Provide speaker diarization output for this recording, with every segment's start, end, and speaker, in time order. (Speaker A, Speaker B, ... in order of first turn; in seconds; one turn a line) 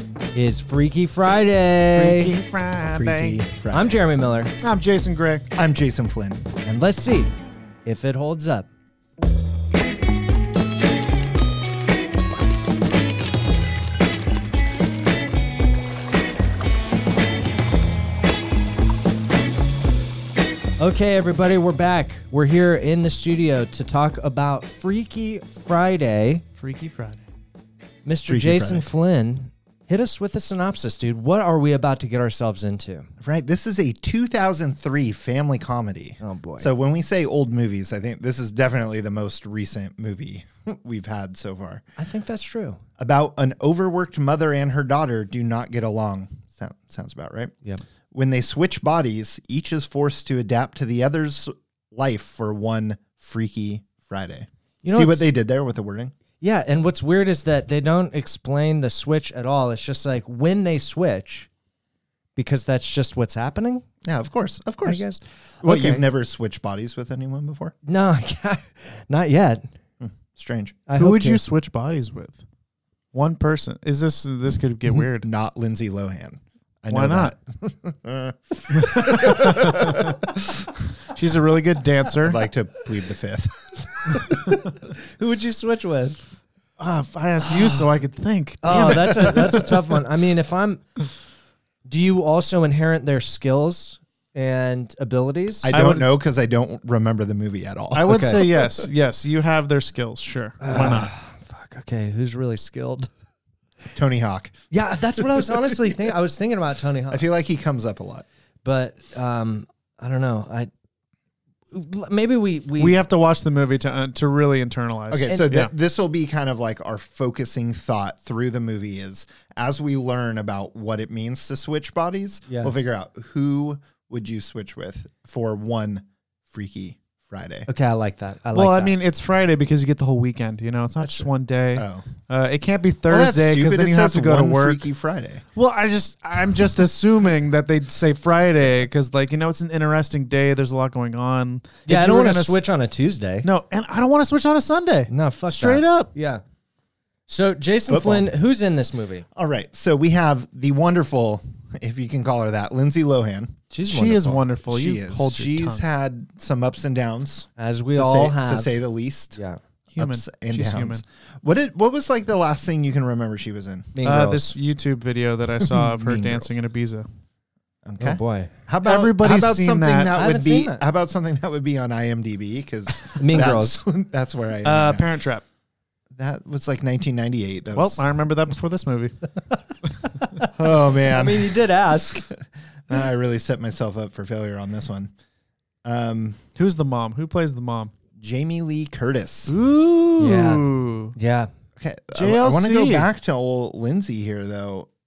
Speaker A: 0.3-2.3
Speaker B: 1.9-3.4
Speaker C: 2.9-4.0
Speaker A: 3.7-4.5
Speaker B: 4.6-5.5
Speaker C: 5.5-6.5
Speaker A: 6.6-7.3
Speaker A: 7.8-8.7
Speaker A: 20.8-26.4
Speaker B: 26.6-27.2
Speaker A: 28.0-33.1
Speaker C: 28.3-28.9
Speaker C: 33.2-41.8
Speaker A: 36.2-36.7
Speaker A: 42.0-42.8
Speaker C: 43.0-47.5
Speaker C: 48.1-56.1
Speaker A: 54.8-55.2
Speaker A: 56.4-61.5
Speaker A: 62.4-63.8
Speaker C: 64.0-65.0
Speaker A: 64.8-66.0
Speaker C: 65.6-67.7
Speaker A: 67.8-69.7
Speaker C: 70.0-70.8
Speaker A: 70.9-71.4
Speaker B: 71.0-72.4
Speaker B: 73.1-75.3
Speaker C: 74.9-80.5
Speaker B: 76.9-77.3
Speaker B: 78.7-80.1
Speaker B: 81.1-82.4
Speaker C: 82.2-83.7
Speaker A: 84.3-86.2
Speaker B: 86.8-90.0
Speaker A: 88.6-90.8
Speaker A: 91.8-95.8
Speaker C: 95.6-98.8
Speaker B: 95.7-96.1
Speaker B: 97.9-101.1
Speaker A: 98.1-98.4
Speaker A: 100.6-103.1
Speaker C: 103.9-104.5
Speaker A: 104.7-107.2
Speaker C: 105.2-105.7
Speaker C: 107.1-108.2
Speaker A: 108.6-110.7
Speaker A: 111.7-113.0
Speaker B: 112.8-115.7
Speaker C: 115.1-127.7
Speaker A: 122.5-122.7
Speaker A: 127.7-128.9
Speaker B: 128.5-134.8
Speaker C: 131.8-132.1
Speaker C: 133.1-135.4
Speaker B: 135.5-142.6
Speaker A: 141.8-143.5
Speaker B: 143.4-146.1
Speaker A: 145.1-146.4
Speaker A: 147.3-149.2
Speaker C: 147.9-148.3
Speaker C: 149.3-153.7
Speaker A: 153.7-154.4
Speaker B: 153.9-155.8
Speaker C: 154.6-159.4
Speaker A: 157.6-158.7
Speaker A: 159.3-159.6
Speaker B: 159.9-161.0
Speaker C: 160.0-164.0
Speaker A: 163.9-164.5
Speaker B: 164.0-167.1
Speaker C: 165.7-166.6
Speaker C: 167.8-175.1
Speaker A: 168.0-168.5
Speaker B: 168.8-170.2
Speaker A: 170.1-170.8
Speaker A: 173.2-173.8
Speaker B: 174.6-175.4
Speaker C: 176.1-178.0
Speaker B: 177.7-179.2
Speaker C: 180.5-182.0
Speaker A: 181.0-182.2
Speaker C: 182.9-185.1
Speaker C: 185.8-186.4
Speaker B: 186.6-187.9
Speaker C: 188.2-189.5
Speaker B: 189.5-191.1
Speaker A: 190.2-191.5
Speaker C: 191.8-194.9
Speaker B: 192.1-193.1